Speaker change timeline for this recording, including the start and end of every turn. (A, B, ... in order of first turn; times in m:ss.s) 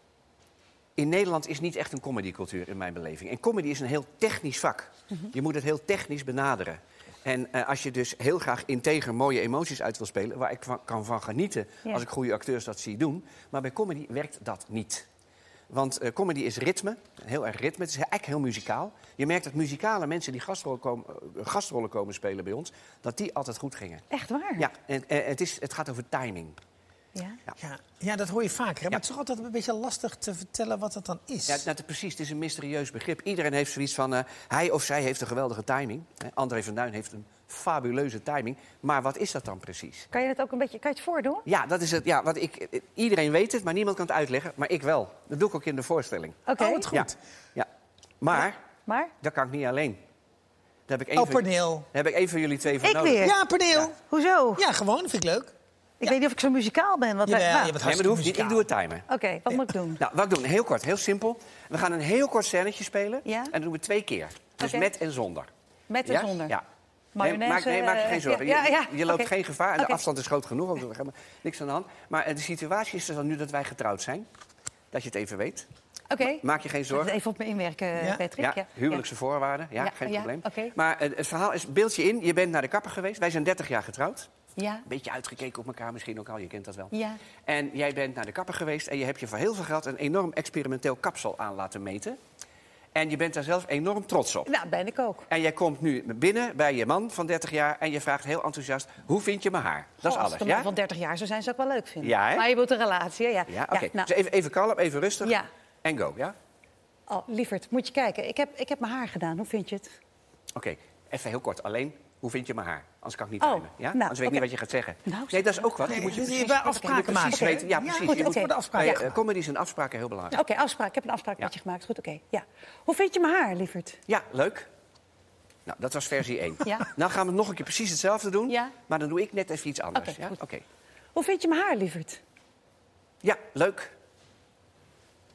0:01.0-0:15.1 A
0:15.7-0:24.0 A
0:24.1-0:24.7 B
0:24.6-0:26.6 A
0:27.6-0:31.6 C
0:31.5-0:40.1 A
0:40.1-0:41.4 B
0:41.5-0:47.7 A
0:46.5-0:46.8 B
0:46.6-0:47.1 C
0:48.2-0:48.6 A
0:48.9-0:49.1 B
0:49.2-0:50.0 A
0:50.9-0:53.9 A
0:51.2-0:51.9 C
0:52.8-0:53.4 B
0:53.2-0:54.0 C
0:54.0-0:54.6 B
0:54.6-0:55.5 C
0:56.0-0:57.8 B
0:57.3-0:58.6 C
0:57.8-0:59.1 A
0:59.1-1:00.0 B
1:00.0-1:05.5 A
1:03.2-1:03.5 B
1:04.6-1:04.9 B
1:05.9-1:06.6 B
1:06.1-1:06.6 A
1:07.2-1:10.0 B
1:07.2-1:14.3 A
1:14.9-1:15.7 A
1:16.1-1:19.0 B
1:16.2-1:17.1 A
1:18.4-1:24.3 A
1:19.8-1:20.7 B
1:24.6-1:24.8 B
1:24.9-1:26.9 A
1:26.9-1:27.2 B
1:27.5-1:32.2 A
1:33.0-1:34.5 A
1:34.5-1:35.3 B
1:35.3-1:40.7 A
1:40.0-1:44.1 B
1:42.0-1:42.5 A
1:43.5-1:46.3 A
1:47.1-1:49.9 B
1:50.6-2:00.4 A
1:53.4-1:54.5 B
1:55.0-1:59.1 B
1:55.9-1:59.2 C
2:00.3-2:04.0 B
2:04.1-2:04.7 A
2:05.7-2:10.6 A
2:08.5-2:08.7 B
2:10.0-2:10.4 B
2:11.2-2:12.2 B
2:13.2-2:13.9 A